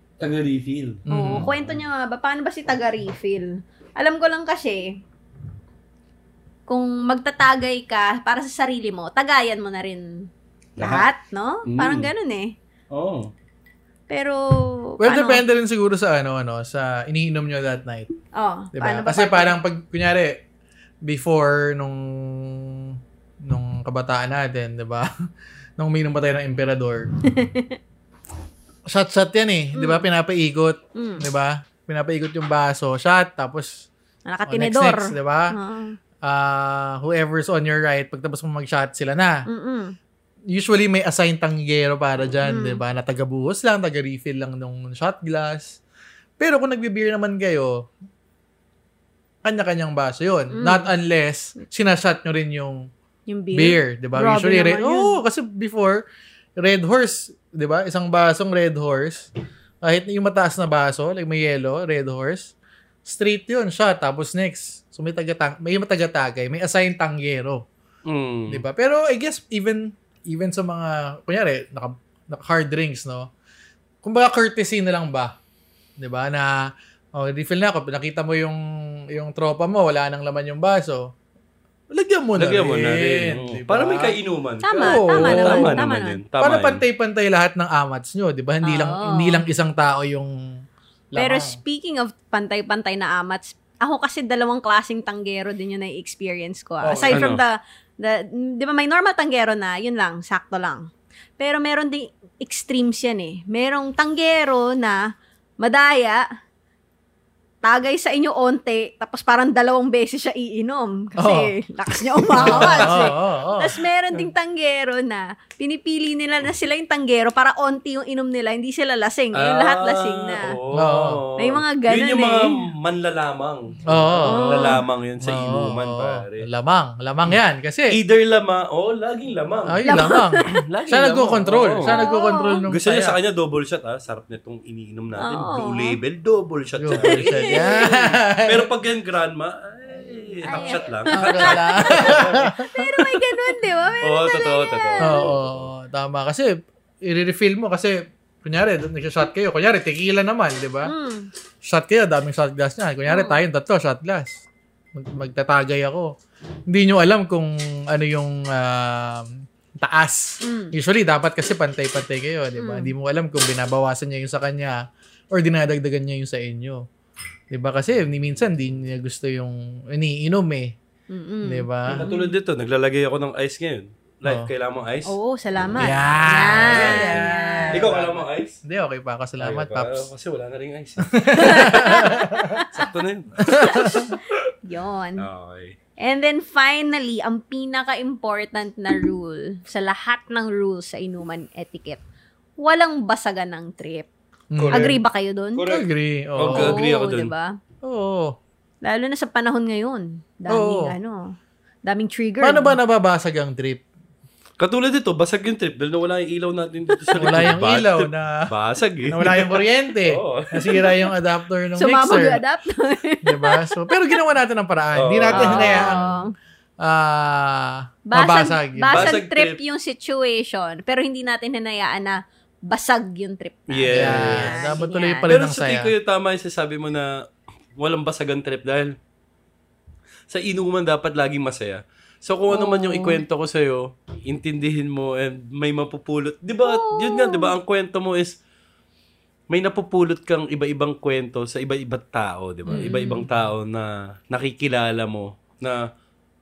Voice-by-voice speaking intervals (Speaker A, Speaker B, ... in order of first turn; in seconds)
Speaker A: 0.2-1.8, 10.8-11.1, 11.6-12.1, 12.9-13.3, 68.1-68.6, 82.3-86.8, 97.1-97.4, 112.3-113.1, 119.3-126.5, 127.9-132.0, 132.7-142.5, 144.0-145.7, 171.9-175.1, 176.5-178.6, 179.4-184.4, 185.2-185.8, 194.6-194.9, 195.6-197.3, 204.6-210.8, 214.9-216.2, 218.9-219.6, 223.7-224.7, 225.2-227.2, 227.8-228.9, 230.3-238.4, 239.5-245.9
Speaker B: 1.1-1.5, 15.0-18.1, 18.7-20.4, 21.0-25.1, 25.8-27.1, 28.9-33.9, 34.5-35.5, 36.2-39.5, 40.5-45.8, 46.4-47.8, 49.4-52.9, 53.5-56.0, 56.6-59.3, 59.8-62.5, 63.0-67.6, 68.5-73.3, 74.0-75.3, 76.0-81.1, 81.9-84.1, 84.8-85.8, 86.4-90.3, 91.1-91.6, 96.8-97.3, 111.2-111.5, 112.3-113.8, 120.7-121.2, 123.9-128.0, 129.7-133.2, 136.8-138.7, 140.6-143.5, 145.0-150.9, 151.7-154.4, 154.9-156.1, 156.7-166.8, 167.5-170.7, 171.4-172.0, 174.2-174.5, 175.8-180.1, 181.1-182.6, 183.4-184.1, 194.5-195.0, 195.7-196.8, 197.8-198.3, 200.5-200.9, 202.4-203.8, 207.2-208.5, 209.1-212.4, 213.2-216.1, 216.8-219.1, 223.9-225.9, 242.7-242.9
Speaker C: 1.1-5.0, 6.7-12.5, 14.1-15.4, 18.3-19.6, 27.2-27.8, 29.7-30.1, 30.9-31.2, 34.3-36.0, 39.5-39.9, 42.4-42.8, 50.5-50.9, 53.3-55.1, 84.6-86.2, 88.6-89.4, 91.2-106.2, 107.6-120.5, 121.4-122.6, 124.2-124.8, 129.8-130.5, 131.8-132.7, 135.2-136.0, 137.0-137.9, 140.5-145.3, 150.8-151.3, 153.1-153.4, 160.4-160.7, 162.6-162.9, 171.1-172.3, 175.1-177.9, 181.3-182.9, 183.6-185.2, 186.0-192.0, 192.6-194.1, 194.7-195.7, 196.5-197.5, 198.8-202.8, 207.2-207.5, 210.8-211.1, 211.8-214.2, 215.3-216.3, 218.1-225.3, 232.5-233.2, 236.6-237.5, 242.7-243.3